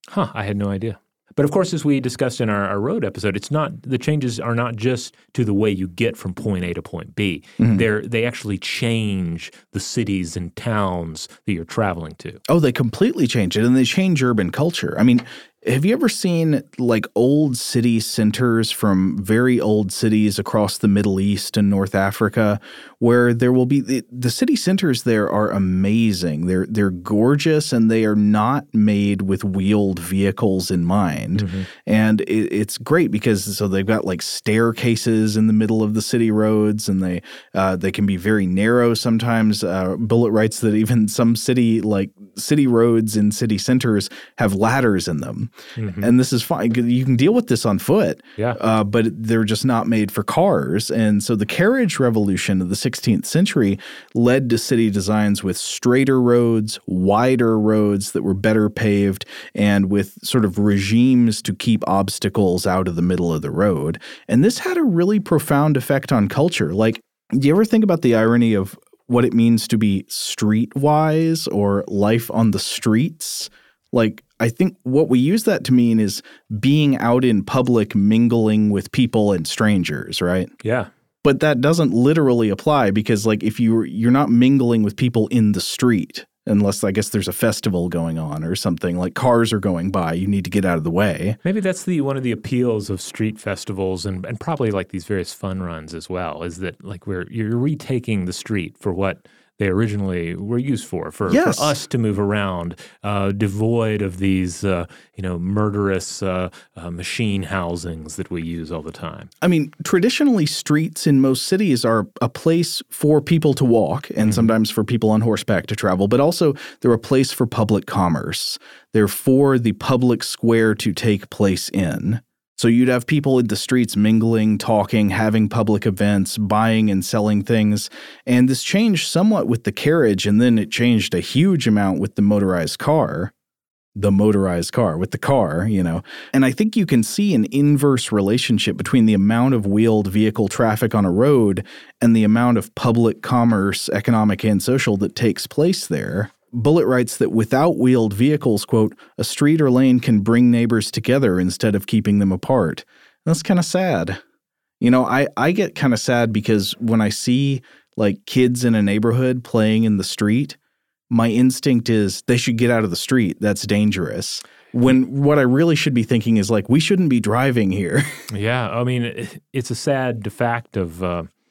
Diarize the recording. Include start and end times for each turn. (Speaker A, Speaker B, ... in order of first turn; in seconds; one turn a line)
Speaker A: 0.1-12.4
Speaker B: 7.6-7.8
Speaker B: 12.5-80.5
Speaker A: 31.3-31.7
Speaker A: 45.8-46.1
Speaker A: 80.6-80.9
Speaker B: 81.2-91.4
Speaker A: 91.4-109.3
Speaker B: 101.3-101.7
Speaker B: 109.4-133.3
Speaker A: 114.2-114.5
Speaker B: 133.9-154.2
Speaker B: 154.8-160.6
Speaker B: 161.1-168.2
Speaker A: 168.3-171.3